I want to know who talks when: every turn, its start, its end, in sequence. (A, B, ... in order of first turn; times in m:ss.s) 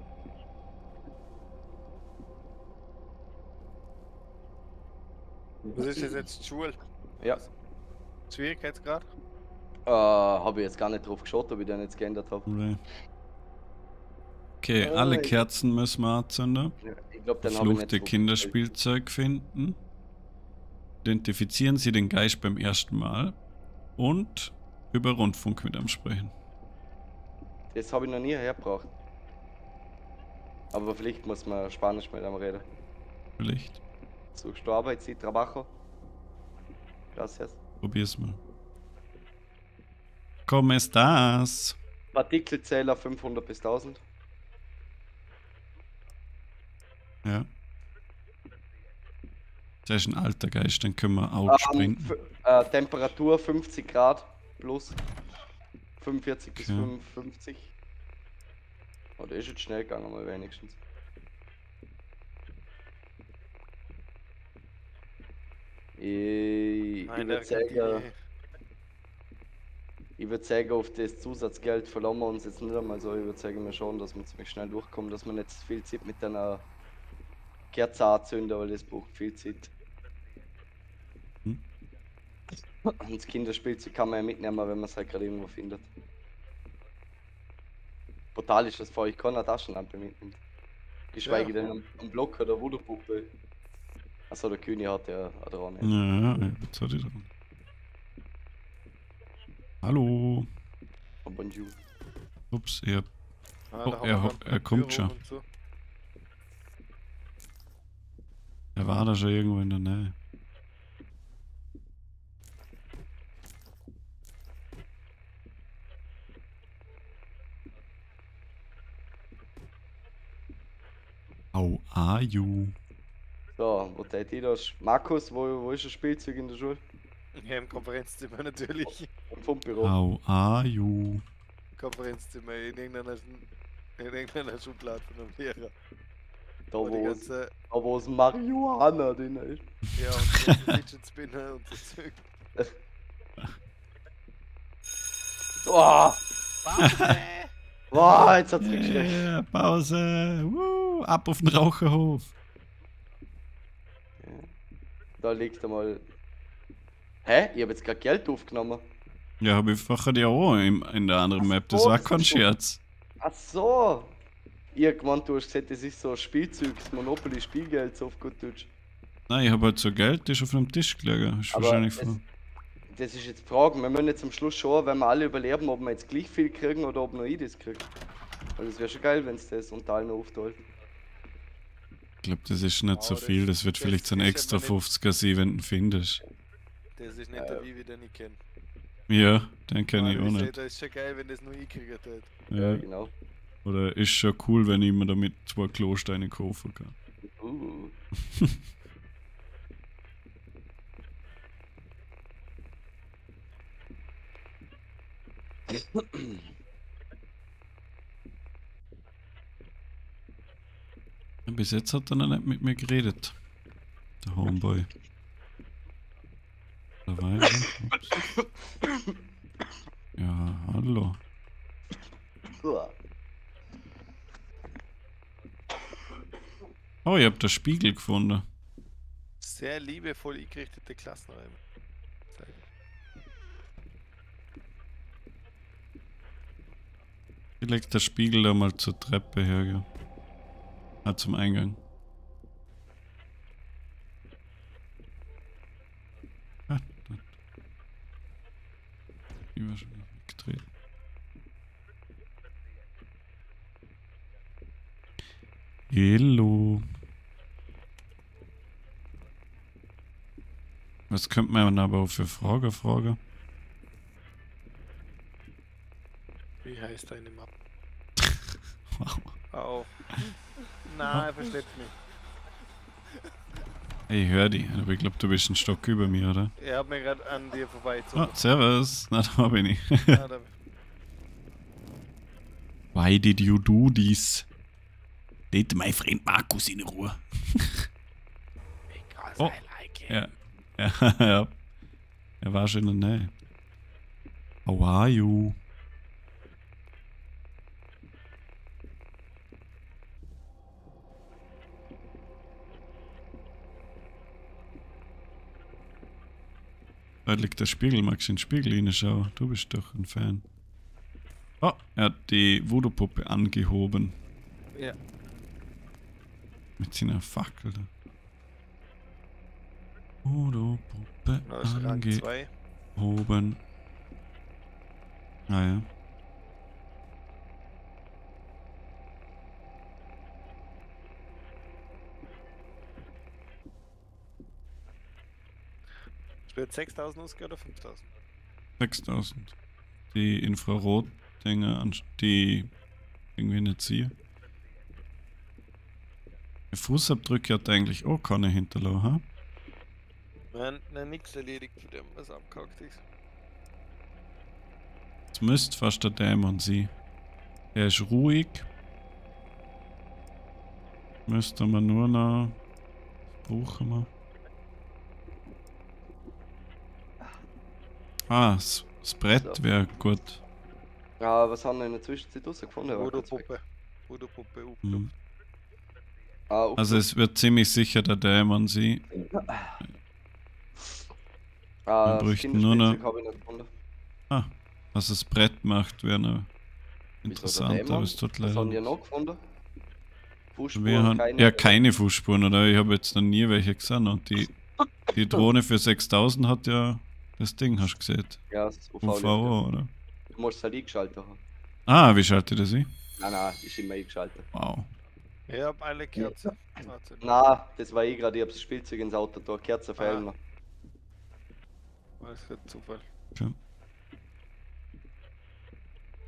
0:05.7-0:07.5 A
0:07.2-0:07.4 B
0:08.3-0:09.1 A
0:09.9-0:12.5 B
0:12.5-0:12.8 C
0:14.6-0:16.8 C
0:14.8-0:15.4 B
0:16.8-0:18.6 B
0:17.4-0:19.8 C
0:21.0-0:23.4 C
0:24.0-0:26.3 C
0:27.7-0:28.9 B
0:30.7-0:32.7 B
0:33.4-0:33.8 C
0:34.4-0:35.7 B
0:37.1-0:37.6 B
0:37.8-0:38.4 C
0:40.5-0:41.8 C
0:42.1-0:44.0 B
0:49.9-0:52.2 C
0:51.5-0:55.0 B
0:56.0-0:57.7 B
0:56.6-0:56.9 C
0:59.2-1:00.8 B
1:06.0-1:08.1 B
1:07.1-1:08.1 A
1:10.2-1:16.6 B
1:17.7-1:19.7 B
1:22.9-1:25.9 B
1:28.4-1:30.4 B
1:31.1-1:33.3 B
1:31.2-1:31.5 A
1:34.3-1:36.5 B
1:35.8-1:37.3 C
1:39.8-1:40.5 C
1:41.2-1:41.8 B
1:42.5-1:43.1 C
1:43.7-1:45.4 A
1:43.8-1:45.1 C
1:48.8-1:50.2 C
2:01.5-2:02.8 C
2:03.6-2:06.8 B
2:07.4-2:09.1 A
2:09.3-2:10.0 B
2:09.8-2:11.2 C
2:11.8-2:13.5 A
2:14.0-2:15.7 A
2:16.7-2:19.7 B
2:16.8-2:17.5 A
2:20.0-2:22.2 A
2:25.6-2:26.2 B
2:26.6-2:27.5 A
2:26.8-2:27.1 C
2:27.9-2:29.3 B
2:28.6-2:32.3 C
2:34.2-2:34.5 B
2:35.2-2:36.0 B
2:37.2-2:38.8 B
2:39.4-2:42.8 C
2:41.4-2:42.5 B
2:43.2-2:44.2 B
2:44.7-2:48.7 B
2:49.3-2:52.2 C
2:51.5-2:52.1 B
2:52.9-2:57.9 B
2:58.6-3:00.6 B
3:02.2-3:06.2 C
3:02.9-3:04.8 A
3:07.0-3:08.4 A
3:07.4-3:07.6 B
3:09.1-3:10.6 C
3:09.9-3:12.3 A
3:12.5-3:12.8 C
3:12.6-3:13.1 B
3:13.6-3:16.9 C
3:17.4-3:18.0 B
3:25.7-3:26.4 B
3:31.5-3:33.4 C
3:34.2-3:34.9 C
3:37.1-3:38.1 C
3:38.4-3:39.1 B
3:40.2-3:41.2 C
3:42.5-3:43.0 B
3:47.0-3:48.4 C
3:49.4-3:51.6 A
3:57.6-3:59.9 C
4:01.0-4:01.8 C
4:06.7-4:07.3 C
4:09.6-4:10.6 C
4:15.9-4:16.9 C
4:21.1-4:23.2 C
4:26.6-4:27.5 A
4:28.9-4:29.4 C
4:29.5-4:29.9 A
4:30.8-4:32.0 A
4:34.1-4:36.5 C
4:36.6-4:38.4 A
4:38.1-4:40.2 C
4:40.1-4:40.5 A
4:42.9-4:44.5 C
4:45.5-4:47.9 C
4:48.9-4:50.2 A
4:49.4-4:51.6 C
4:52.4-4:53.3 C
4:54.6-4:55.6 C
5:07.3-5:10.4 C
5:11.6-5:14.2 C
5:16.8-5:17.9 C
5:20.2-5:22.3 C
5:21.4-5:22.5 A
5:23.0-5:23.6 C
5:25.5-5:25.9 C
5:36.5-5:38.1 A
5:38.8-5:39.6 C
5:40.1-5:42.7 C
5:43.4-5:44.1 C
5:46.7-5:49.2 C
5:50.5-5:53.0 A
5:55.3-5:56.9 C
5:57.8-5:58.7 C
6:01.3-6:02.6 C
6:03.4-6:04.1 C
6:08.3-6:10.4 C
6:09.3-6:09.6 B
6:11.2-6:13.5 B
6:12.9-6:15.0 A
6:14.8-6:15.1 C
6:16.5-6:17.0 B
6:16.8-6:19.1 C
6:19.3-6:19.8 B
6:21.9-6:23.7 B
6:22.0-6:23.0 C
6:24.3-6:26.5 C
6:27.2-6:28.9 C
6:27.3-6:29.4 B
6:30.5-6:31.8 B
6:30.8-6:34.5 C
6:35.1-6:38.4 C
6:38.5-6:39.6 B
6:39.0-6:39.9 C
6:40.4-6:41.4 B
6:41.9-6:42.9 C
6:43.2-6:44.5 B
6:44.5-6:44.9 C
6:45.5-6:47.3 A
6:47.2-6:50.4 B
6:50.0-6:50.3 A
6:52.2-6:53.0 A